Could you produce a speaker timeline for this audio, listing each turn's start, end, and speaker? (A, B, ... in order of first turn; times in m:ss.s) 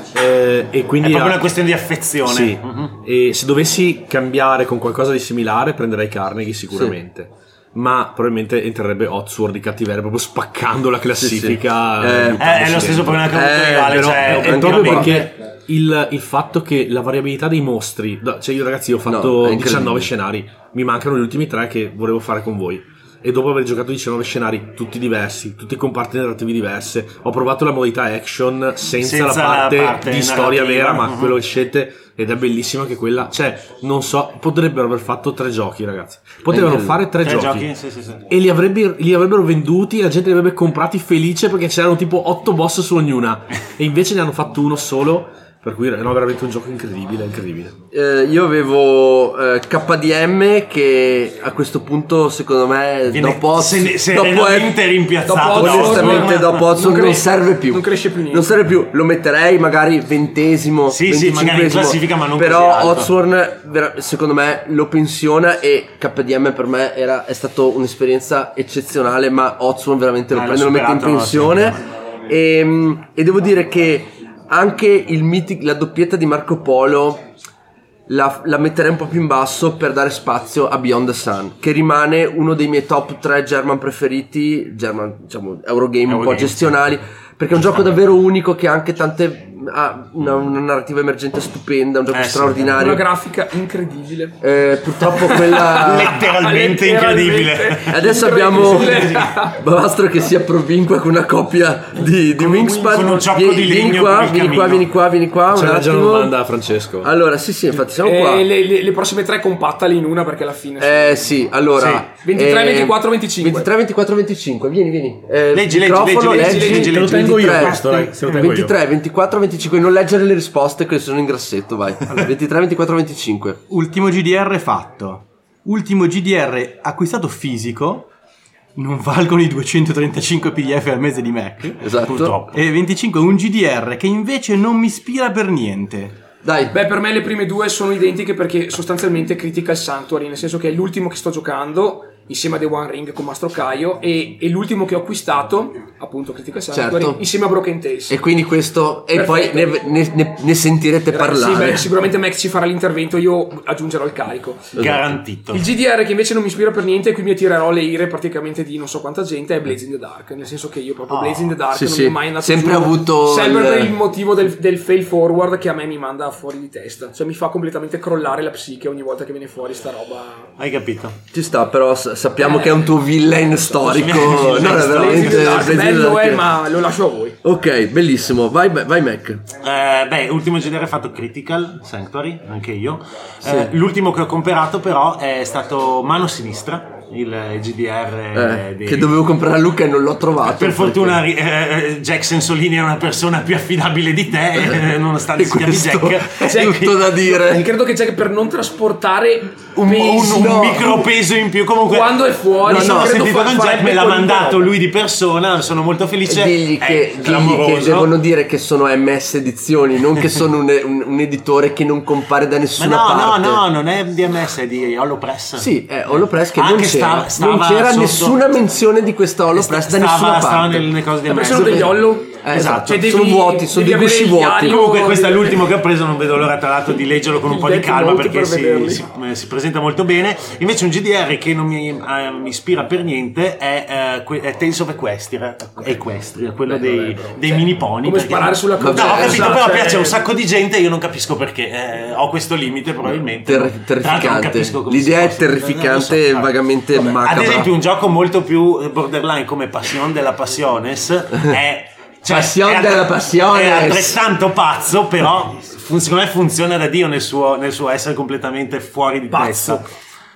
0:00.1-0:01.5 A
0:01.0-0:03.0 B
0:02.2-0:37.7 A
0:11.2-0:12.6 C
0:12.4-0:15.2 B
0:13.2-0:15.3 C
0:19.0-0:20.1 C
0:29.0-0:31.4 B
0:36.5-0:37.0 C
0:37.2-0:38.3 B
0:38.3-0:47.7 A
0:47.9-0:54.9 C
0:53.1-0:56.7 B
0:55.3-0:58.5 D
0:55.5-1:17.2 C
1:00.9-1:03.1 B
1:10.3-1:11.8 B
1:18.1-1:33.0 C
1:26.1-1:26.8 B
1:32.1-1:32.7 B
1:32.8-1:34.4 D
1:34.4-1:36.2 C
1:35.0-1:39.5 D
1:35.7-1:37.9 B
1:37.9-1:46.4 C
1:38.5-1:39.4 B
1:42.4-1:44.8 B
1:45.5-1:47.1 A
1:47.0-1:48.5 C
1:48.0-1:51.2 D
1:50.8-2:03.6 C
1:52.2-1:53.7 D
1:55.5-1:58.2 B
1:56.2-1:56.9 D
1:56.7-1:58.7 A
2:03.7-2:08.1 E
2:08.8-2:11.8 E
2:11.8-2:12.4 C
2:12.0-2:12.6 B
2:12.5-2:16.2 E
2:16.4-2:16.7 C
2:16.7-2:28.2 D
2:26.7-2:27.2 C
2:28.1-2:31.9 C
2:29.1-2:29.8 D
2:31.1-2:34.8 D
2:34.8-2:35.1 C
2:34.8-2:35.7 B
2:35.5-2:50.5 D
2:41.1-2:41.6 B
2:41.7-2:43.9 C
2:50.6-2:51.2 B
2:51.3-2:56.5 C
2:52.4-2:52.7 D
2:53.8-2:55.7 B
2:54.7-2:57.4 D
2:57.4-2:59.4 C
2:59.6-3:09.1 B
3:03.4-3:03.7 C
3:08.3-3:11.2 C
3:10.4-3:17.1 B
3:14.6-3:17.7 C
3:16.4-3:20.9 D
3:19.8-3:21.0 C
3:19.8-3:28.1 B
3:21.9-3:24.7 D
3:22.6-3:23.3 C
3:26.3-3:33.6 C
3:32.8-3:38.4 B
3:35.6-3:40.9 C
3:39.5-3:43.0 B
3:41.3-3:45.6 D
3:41.4-3:44.8 C
3:44.6-4:19.9 B
3:47.4-3:49.0 D
3:56.7-4:00.2 D
3:58.8-3:59.6 C
4:03.0-4:07.7 C
4:12.3-4:14.2 C
4:19.3-4:19.8 D